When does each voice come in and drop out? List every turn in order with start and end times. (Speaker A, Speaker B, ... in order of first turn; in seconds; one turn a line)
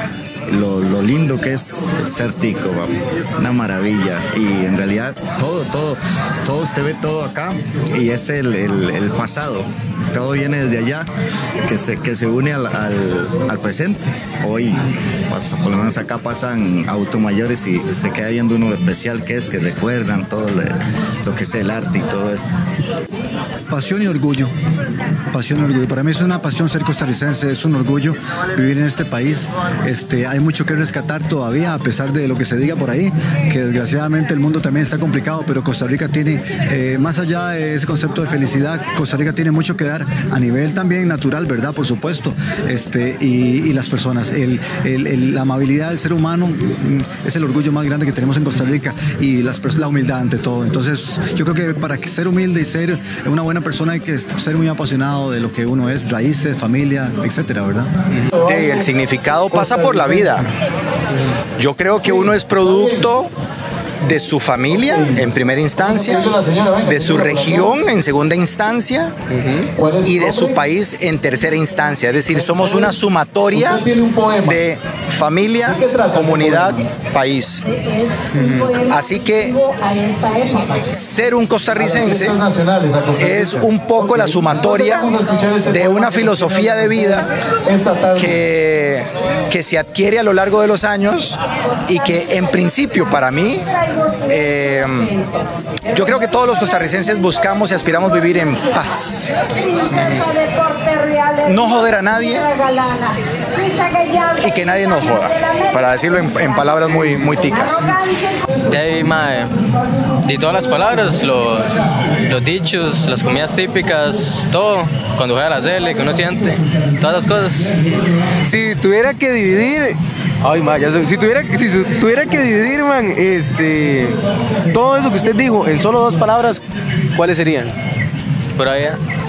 Speaker A: 0.5-11.1
Speaker A: 11.7-20.7
Speaker A: 21.2-22.5
Speaker B: 23.7-24.5
Speaker B: 25.3-57.9
Speaker C: 58.4-60.4
Speaker A: 58.5-60.2
Speaker D: 59.5-60.3
Speaker C: 61.6-63.3
Speaker D: 62.0-62.3
Speaker A: 62.1-63.1
Speaker C: 64.0-66.3
Speaker A: 64.9-65.2
Speaker A: 65.8-66.2
Speaker D: 65.8-67.6
Speaker C: 66.8-69.1
Speaker A: 66.9-67.7
Speaker D: 69.3-70.4
Speaker C: 70.0-73.8
Speaker A: 70.0-70.6
Speaker D: 72.3-72.9
Speaker D: 73.6-74.5
Speaker C: 74.5-82.3
Speaker D: 75.7-76.8
Speaker A: 75.7-76.6
Speaker D: 78.3-78.7
Speaker A: 81.7-82.3
Speaker D: 81.7-88.4
Speaker C: 83.2-85.2
Speaker A: 83.3-84.9
Speaker C: 85.7-87.3
Speaker A: 85.7-86.9
Speaker C: 88.2-95.3
Speaker C: 95.9-108.4
Speaker A: 97.2-99.0
Speaker A: 101.6-102.0
Speaker A: 104.5-107.6
Speaker E: 106.9-107.5
Speaker E: 108.7-109.5
Speaker E: 110.2-111.7
Speaker E: 112.2-117.7
Speaker D: 118.4-124.2
Speaker D: 124.7-126.6
Speaker D: 127.1-127.7
Speaker E: 128.6-129.0